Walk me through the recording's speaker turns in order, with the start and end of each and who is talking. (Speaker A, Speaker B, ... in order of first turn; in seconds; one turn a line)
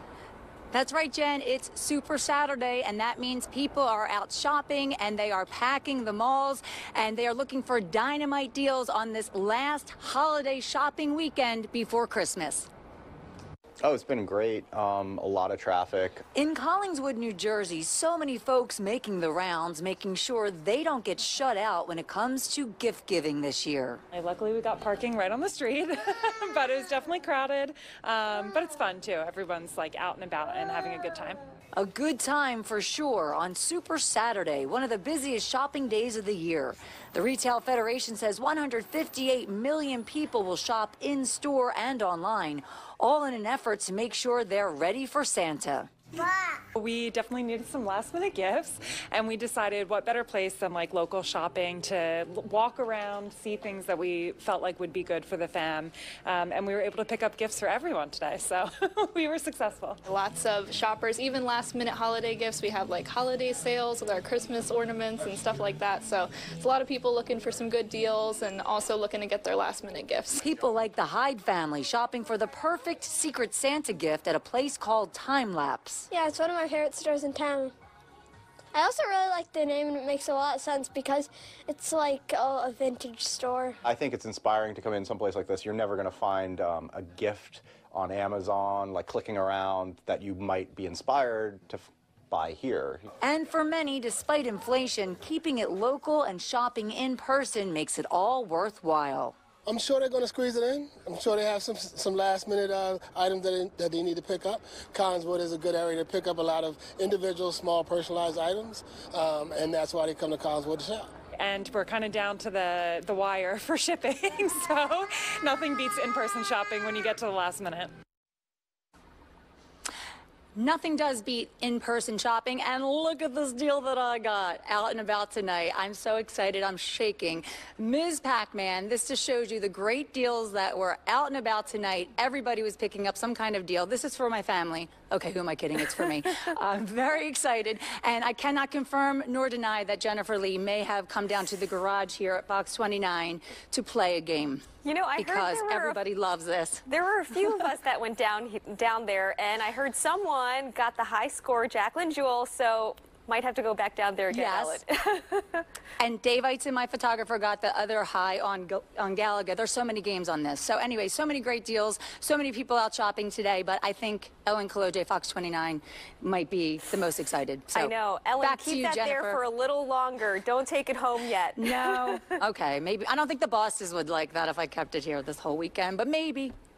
Speaker A: 0.7-12.7
Speaker B: 13.8-16.2
Speaker A: 16.3-24.0
Speaker C: 24.1-31.4
Speaker A: 31.7-45.9
Speaker C: 46.7-60.0
Speaker D: 60.1-70.4
Speaker A: 70.4-76.1
Speaker E: 76.1-77.7
Speaker E: 78.7-83.8
Speaker B: 83.8-93.1
Speaker A: 93.2-99.3
Speaker F: 99.7-111.1
Speaker C: 111.4-117.9
Speaker A: 120.5-144.6
Speaker G: 144.8-146.0
Speaker A: 145.2-146.8
Speaker G: 146.8-155.6
Speaker A: 154.3-154.8
Speaker A: 156.0-169.4
Speaker G: 167.7-172.3
Speaker A: 171.6-176.5